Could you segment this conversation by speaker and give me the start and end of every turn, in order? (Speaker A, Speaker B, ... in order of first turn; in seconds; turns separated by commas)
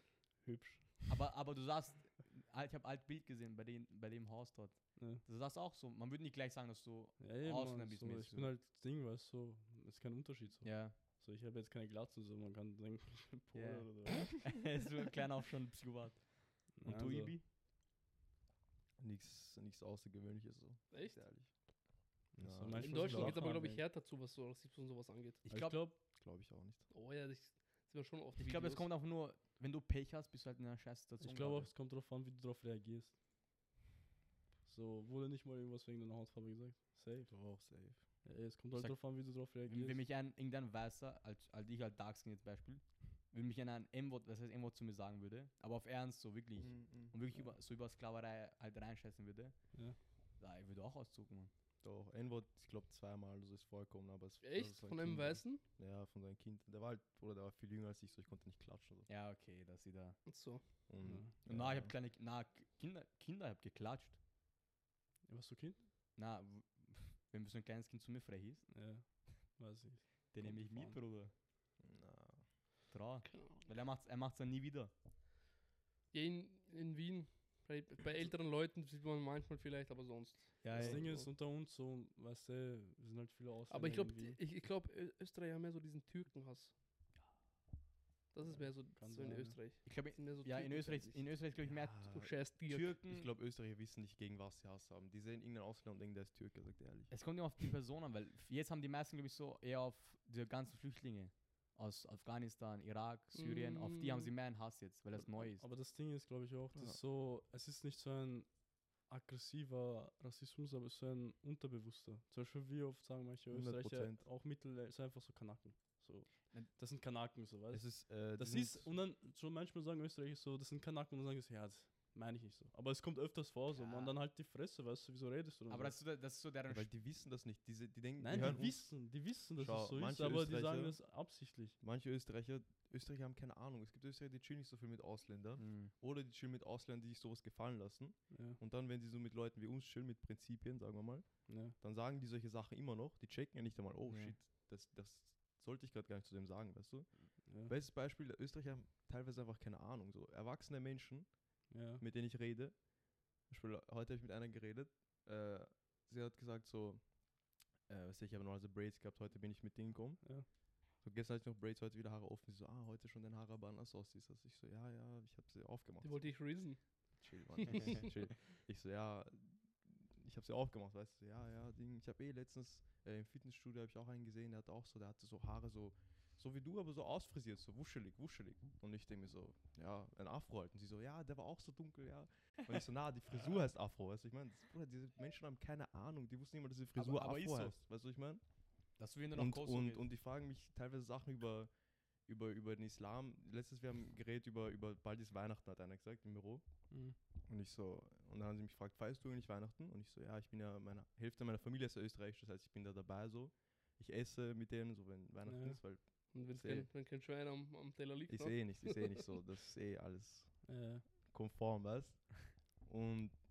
Speaker A: 0.4-1.0, Speaker B: 1.1-8.5, Speaker A: 5.0-5.2, Speaker A: 7.2-14.3, Speaker B: 10.6-10.9, Speaker B: 13.5-17.4, Speaker A: 16.8-17.4, Speaker C: 19.0-21.5, Speaker D: 20.9-21.2, Speaker A: 22.3-23.8, Speaker C: 22.4-23.4, Speaker D: 22.8-25.4, Speaker B: 25.4-25.9, Speaker A: 25.5-26.0, Speaker C: 26.2-26.9, Speaker D: 26.9-28.9, Speaker B: 28.4-31.7, Speaker A: 31.2-33.1, Speaker A: 34.7-37.3, Speaker C: 37.3-38.0, Speaker A: 38.2-40.0, Speaker B: 39.7-49.5, Speaker C: 46.6-47.1, Speaker B: 50.4-51.5, Speaker C: 51.8-59.1, Speaker D: 54.4-55.6, Speaker B: 59.1-60.2, Speaker D: 60.3-60.6, Speaker C: 60.9-61.9, Speaker A: 61.0-61.3, Speaker B: 61.5-64.2, Speaker A: 65.3-65.8, Speaker B: 66.2-68.7, Speaker A: 68.7-71.0, Speaker B: 70.3-71.3, Speaker C: 71.8-72.5, Speaker B: 72.9-74.9, Speaker D: 73.3-73.7, Speaker D: 76.1-81.2, Speaker B: 80.6-81.2, Speaker A: 80.7-84.4, Speaker D: 83.7-86.7, Speaker D: 88.3-91.3, Speaker A: 88.5-89.6, Speaker B: 89.8-92.1, Speaker C: 91.7-97.1, Speaker D: 92.1-92.9, Speaker B: 92.8-93.3, Speaker B: 97.1-105.7, Speaker D: 103.3-104.3, Speaker A: 105.4-108.5, Speaker A: 109.1-126.0, Speaker C: 113.5-114.2, Speaker C: 117.7-118.9, Speaker B: 123.7-124.2, Speaker B: 125.7-126.9, Speaker C: 126.7-129.0, Speaker A: 128.2-131.8, Speaker C: 129.6-131.0, Speaker C: 131.8-147.1, Speaker B: 135.6-135.9, Speaker A: 138.3-138.6, Speaker A: 141.5-141.8, Speaker B: 144.1-144.3, Speaker A: 147.5-147.7, Speaker C: 147.6-151.3, Speaker A: 151.7-152.0, Speaker C: 152.0-152.8, Speaker C: 153.5-157.0, Speaker C: 157.9-160.2, Speaker C: 161.0-166.3, Speaker D: 166.0-166.8, Speaker C: 167.2-188.4, Speaker D: 167.7-168.1, Speaker B: 187.0-187.8, Speaker B: 189.0-190.0, Speaker C: 189.3-191.7, Speaker C: 192.3-196.6, Speaker A: 196.9-197.2, Speaker C: 197.5-206.9, Speaker A: 205.5-205.8, Speaker D: 206.3-209.1, Speaker C: 208.3-210.6, Speaker A: 210.7-211.0, Speaker C: 211.3-212.2, Speaker C: 212.8-213.3